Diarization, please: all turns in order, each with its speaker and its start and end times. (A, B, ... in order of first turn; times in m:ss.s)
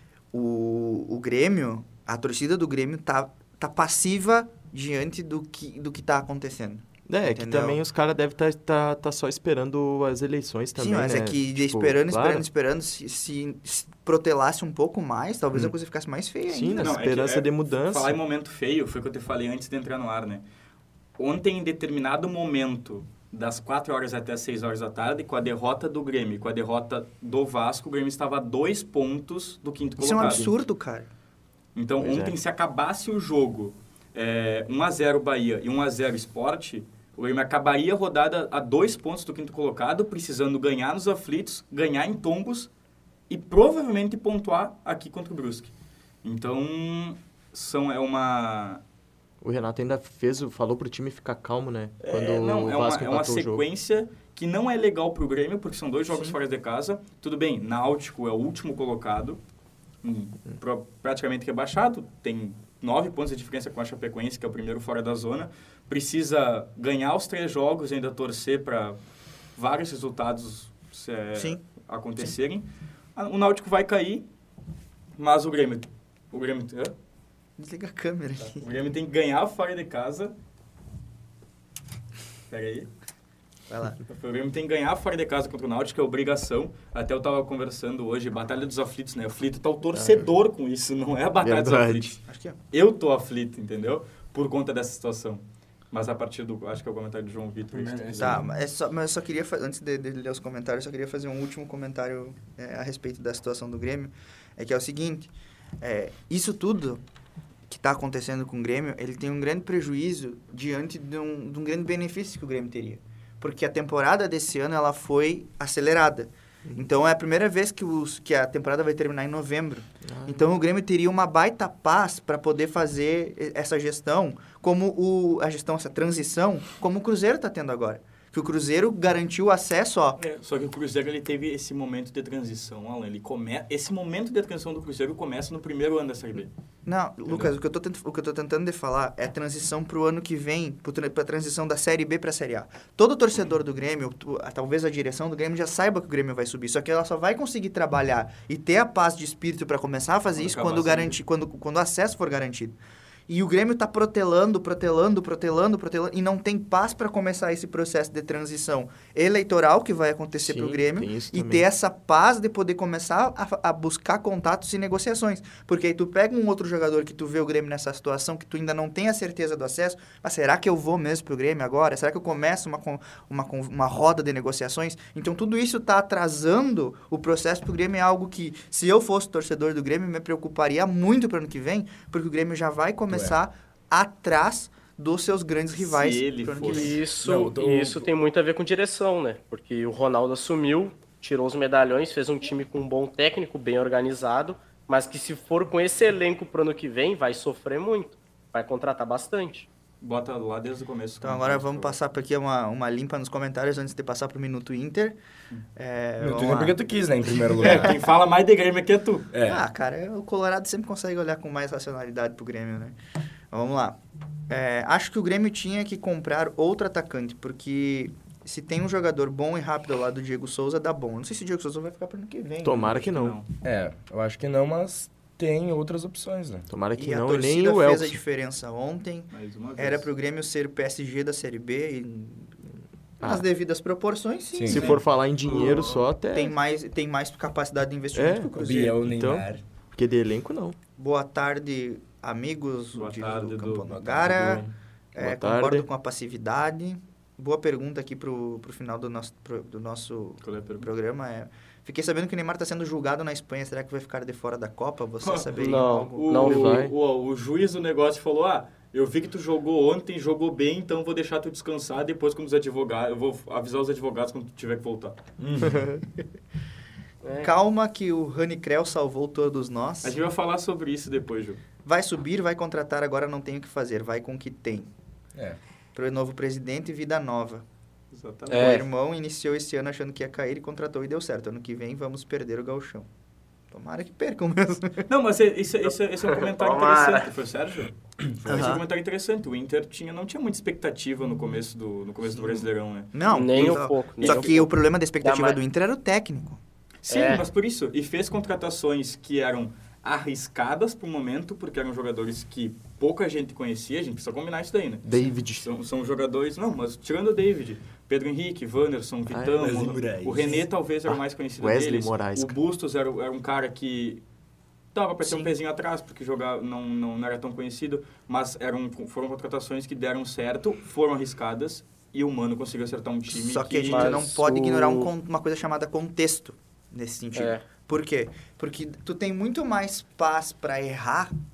0:00.3-0:07.8 A
0:07.1-0:12.5 B
0:10.8-0:17.0 A
0:16.5-0:18.2 B
0:16.8-0:20.4 C
0:21.2-0:30.6 C
0:30.0-0:31.1 A
0:30.1-0:30.5 B
0:31.7-0:42.7 C
0:32.0-0:32.4 B
0:43.3-0:45.7 C
0:46.2-0:48.8 C
0:49.4-0:53.6 B
0:52.0-0:59.4 C
1:00.0-1:09.0 C
1:09.6-1:14.2 C
1:15.2-1:16.9 C
1:17.6-1:18.6 A
1:18.4-1:20.3 C
1:22.5-1:22.9 C
1:23.7-1:24.0 A
1:24.1-1:38.4 C
1:29.9-1:30.3 B
1:31.4-1:32.2 B
1:32.3-1:32.6 A
1:37.8-1:38.3 D
1:38.2-1:47.0 A
1:47.7-2:10.2 A
2:00.0-2:00.5 B
2:10.2-2:16.5 C
2:16.8-2:32.8 A
2:17.3-2:17.5 C
2:30.3-2:31.2 C
2:33.3-3:07.0 A
2:40.4-2:41.7 B
3:03.1-3:03.4 D
3:05.7-3:07.0 C
3:06.6-3:19.7 E
3:07.2-3:08.1 D
3:20.0-3:22.0 C
3:21.2-3:25.2 A
3:25.8-3:26.8 A
3:26.2-3:27.9 D
3:27.4-3:27.9 A
3:27.6-3:29.3 C
3:29.3-3:29.6 D
3:29.4-3:33.0 A
3:33.5-3:34.0 A
3:34.5-3:43.2 A
3:42.6-3:43.4 B
3:43.1-3:43.5 C
3:43.6-3:46.7 D
3:46.7-3:48.2 B
3:47.0-3:52.5 A
3:49.3-3:50.1 C
3:53.2-3:59.0 A
3:54.5-3:55.0 D
3:54.6-3:56.6 B
3:54.7-3:56.0 C
3:58.1-4:00.8 B
3:58.5-3:59.6 D
4:01.0-4:16.3 A
4:02.9-4:04.7 C
4:04.0-4:04.6 D
4:05.2-4:05.9 B
4:10.4-4:10.9 C
4:15.2-4:25.2 C
4:15.6-4:16.8 E
4:16.3-4:16.9 B
4:25.4-4:26.0 D
4:27.2-4:27.5 E
4:27.4-4:30.2 A
4:30.0-4:31.6 C
4:31.8-4:34.9 A
4:35.9-4:37.6 A
4:38.1-4:38.8 C
4:38.5-4:43.1 A
4:43.7-4:45.0 A
4:45.1-4:54.6 C
4:46.3-4:47.3 E
4:48.4-4:48.8 A
4:52.3-4:56.6 A
4:53.2-4:55.6 E
4:57.0-5:05.1 C
4:57.1-4:57.4 E
5:05.0-5:05.7 B
5:05.6-5:14.2 C
5:09.3-5:09.9 B
5:09.6-5:10.6 D
5:11.1-5:12.6 B
5:14.9-5:24.2 C
5:23.3-5:31.3 A
5:23.9-5:25.1 E
5:27.3-5:27.6 E